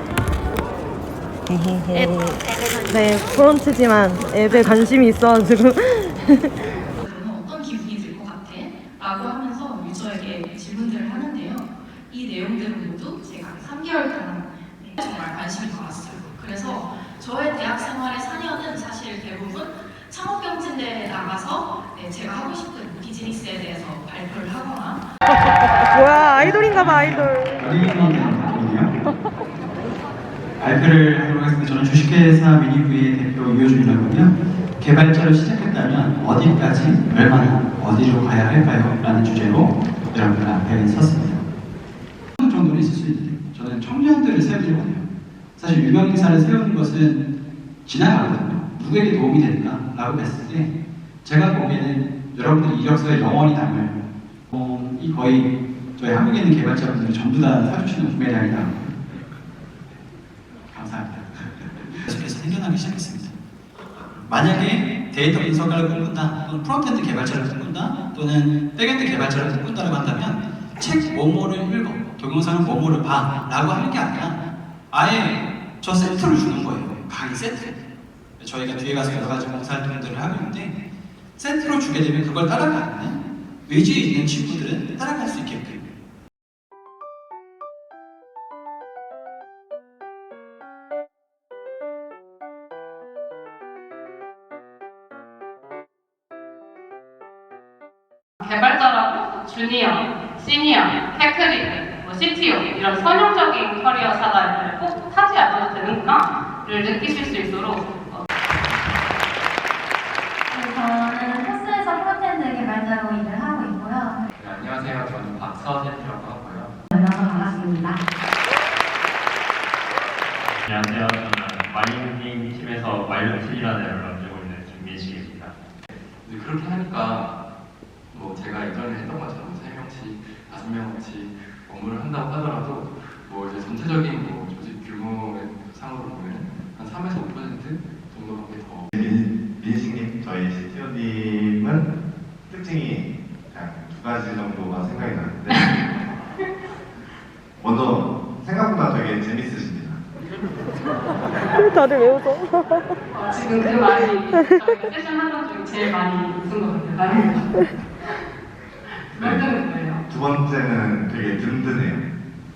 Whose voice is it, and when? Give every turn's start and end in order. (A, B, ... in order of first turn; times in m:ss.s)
0:01.5-0:06.5 A
0:07.0-0:25.1 B
0:25.9-0:28.9 C
0:30.6-0:41.4 C
0:42.4-0:47.3 C
0:47.8-0:59.0 C
1:00.7-1:03.4 C
1:04.2-1:17.8 C
1:18.4-1:20.8 C
1:21.4-1:25.9 C
1:38.4-1:48.2 D
1:50.5-1:54.2 E
1:54.4-1:56.8 F
1:56.9-1:58.0 E
2:00.7-2:05.5 G
2:06.2-2:07.3 F
2:08.1-2:18.9 F
2:18.9-2:21.9 H
2:22.5-2:25.7 H
2:25.5-2:25.9 D
2:27.6-2:30.0 H
2:31.8-2:32.4 A
2:33.1-2:38.2 D
2:39.1-2:40.0 D
2:39.2-2:39.5 H
2:40.1-2:42.1 H